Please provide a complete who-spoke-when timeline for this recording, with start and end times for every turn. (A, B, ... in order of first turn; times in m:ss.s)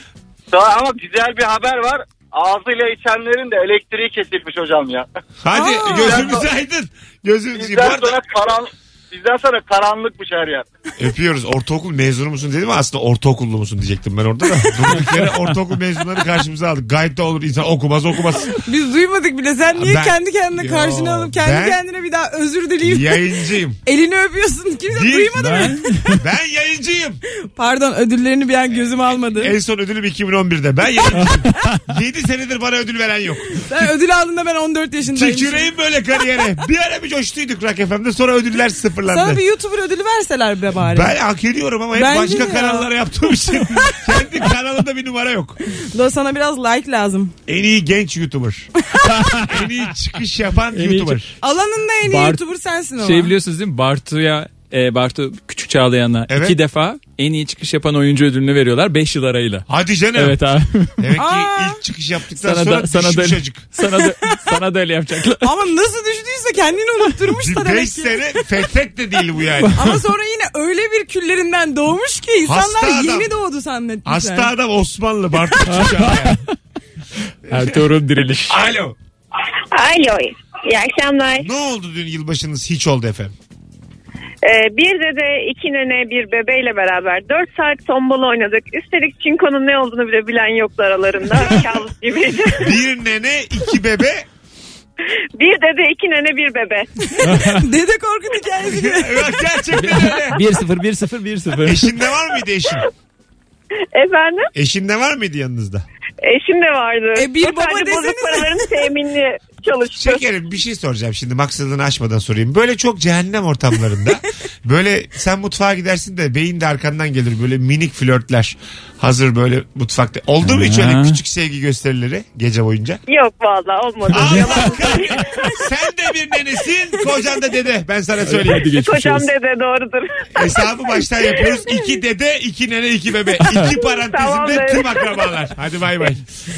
0:00.5-0:05.1 A
0:05.4-0:08.2 B
0:05.5-0:06.4 C
0:05.9-0:06.5 A
0:07.6-0:10.7 A
0:11.0-0:18.5 B
0:18.6-0:23.2 C
0:19.7-0:21.8 B
0:22.8-0:23.8 B
0:23.8-0:26.0 C
0:24.9-0:25.7 B
0:25.4-0:26.2 D
0:26.2-0:27.2 B
0:27.6-0:29.6 C
0:29.3-0:33.6 B
0:31.2-0:31.8 D
0:33.5-0:35.7 C
0:35.1-0:39.4 B
0:39.1-0:41.1 C
0:40.8-0:45.6 B
0:41.9-0:42.9 C
0:43.6-0:44.0 C
0:45.9-0:47.3 C
0:47.5-0:48.7 B
0:49.0-0:49.7 D
0:49.5-0:51.3 B
0:50.7-0:51.3 D
0:51.4-0:53.3 C
0:52.0-0:52.4 D
0:53.0-1:01.0 D
0:56.3-0:56.6 B
0:59.7-1:00.4 B
1:01.0-1:03.7 B
1:01.2-1:01.8 C
1:02.4-1:05.5 D
1:05.4-1:08.4 C
1:07.3-1:09.8 B
1:09.7-1:14.5 C
1:12.4-1:13.3 B
1:14.0-1:16.4 B
1:15.7-1:16.5 D
1:17.5-1:18.6 D
1:17.5-1:17.8 B
1:18.5-1:19.0 B
1:19.7-1:21.5 E
1:21.4-1:23.3 B
1:24.4-1:32.8 E
1:32.6-1:34.3 B
1:35.4-1:36.9 E
1:37.2-1:39.4 C
1:37.2-1:37.7 D
1:38.6-1:40.5 B
1:39.7-1:41.9 D
1:41.6-1:42.8 B
1:43.9-1:44.5 E
1:44.6-1:45.8 B
1:46.2-1:50.3 E
1:47.2-1:48.9 C
1:50.0-2:03.0 B
2:00.4-2:01.2 D
2:03.1-2:05.4 E
2:04.1-2:05.5 D
2:04.1-2:08.7 B
2:08.3-2:09.3 D
2:08.7-2:10.5 E
2:10.3-2:16.2 B
2:13.4-2:13.7 D
2:13.7-2:15.3 E